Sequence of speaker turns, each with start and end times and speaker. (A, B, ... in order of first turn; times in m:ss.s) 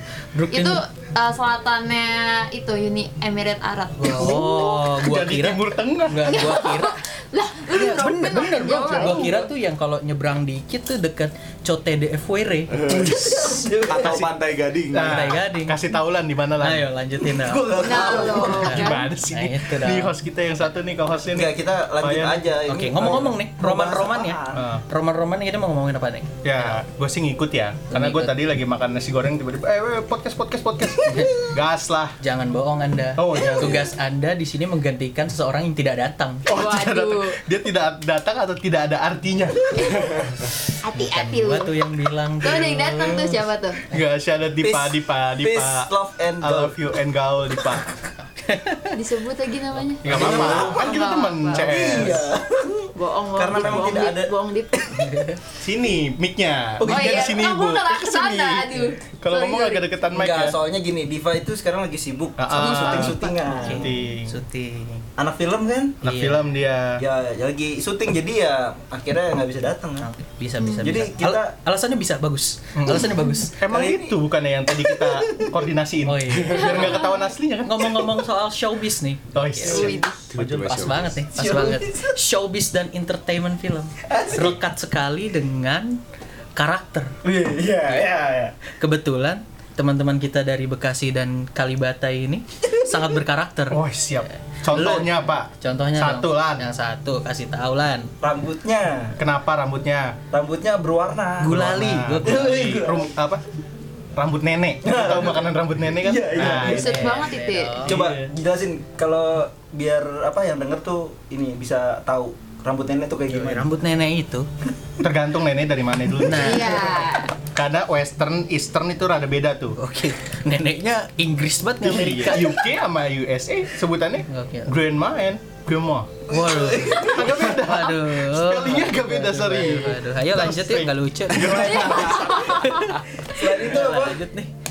0:00.3-0:00.8 A
0:00.5-0:04.8 B
0:03.9-0:07.0 A
0:04.9-0:06.5 C
0:06.2-0:09.4 B
0:07.7-0:12.9 A
0:08.7-0:09.2 C
0:12.7-0:15.3 D
0:12.9-0:14.3 E
0:14.9-0:16.9 C
0:14.9-0:15.8 A
0:16.6-0:20.1 A
0:17.3-0:18.8 E
0:17.7-0:19.1 B
0:18.1-0:22.5 C
0:21.3-0:24.6 E
0:22.7-0:26.8 A
0:24.5-0:24.8 C
0:26.4-0:32.2 C
0:27.9-0:28.4 A
0:32.2-0:36.5 A
0:33.2-0:33.9 C
0:36.4-0:40.0 C
0:36.5-0:37.4 B
0:40.8-0:41.7 B
0:41.0-0:43.4 A
0:42.4-0:43.8 B
0:43.9-0:47.8 C
0:44.6-0:46.7 E
0:48.4-0:49.0 A
0:48.9-0:52.0 B
0:49.8-0:50.6 A
0:50.0-0:52.3 C
0:50.1-0:50.9 E
0:51.5-0:55.1 E
0:52.9-0:54.9 B
0:54.9-0:55.4 A
0:55.6-1:00.6 C
0:56.8-0:57.2 E
0:56.8-1:00.0 B
1:00.1-1:03.9 E
1:02.4-1:04.4 C
1:02.6-1:05.1 A
1:02.9-1:03.4 B
1:05.2-1:06.0 E
1:06.0-1:07.0 C
1:06.0-1:06.5 A
1:07.0-1:10.1 E
1:10.0-1:13.5 A
1:10.8-1:11.5 E
1:12.8-1:18.1 C
1:13.0-1:13.4 B
1:13.6-1:14.2 E
1:14.9-1:15.5 E
1:16.0-1:17.0 A
1:16.3-1:16.8 D
1:16.5-1:17.3 B
1:17.6-1:20.0 A
1:19.3-1:20.9 C
1:19.6-1:20.2 B
1:19.8-1:21.2 D
1:20.7-1:26.0 A
1:21.3-1:22.2 E
1:24.0-1:24.6 E
1:26.5-1:27.2 A
1:27.2-1:28.5 E
1:28.6-1:33.8 A
1:33.7-1:36.7 C
1:34.6-1:38.1 A
1:38.2-1:39.2 E
1:39.2-1:40.2 C
1:40.3-1:41.6 E
1:41.4-1:42.9 A
1:41.4-1:43.4 C
1:42.2-1:43.1 E
1:44.2-1:47.0 C
1:44.8-1:45.5 E
1:46.0-1:47.0 E
1:46.4-1:48.0 A
1:46.6-1:47.9 B
1:47.8-1:53.7 E
1:47.8-1:48.3 C
1:53.3-1:54.5 A
1:55.0-1:59.8 C
1:56.2-1:56.9 A
1:56.3-1:57.3 B
1:59.8-2:02.5 A
2:01.8-2:06.2 C
2:04.3-2:04.7 A
2:06.3-2:14.5 A
2:06.4-2:07.2 E
2:06.9-2:12.3 C
2:11.3-2:14.2 E
2:11.8-2:12.8 B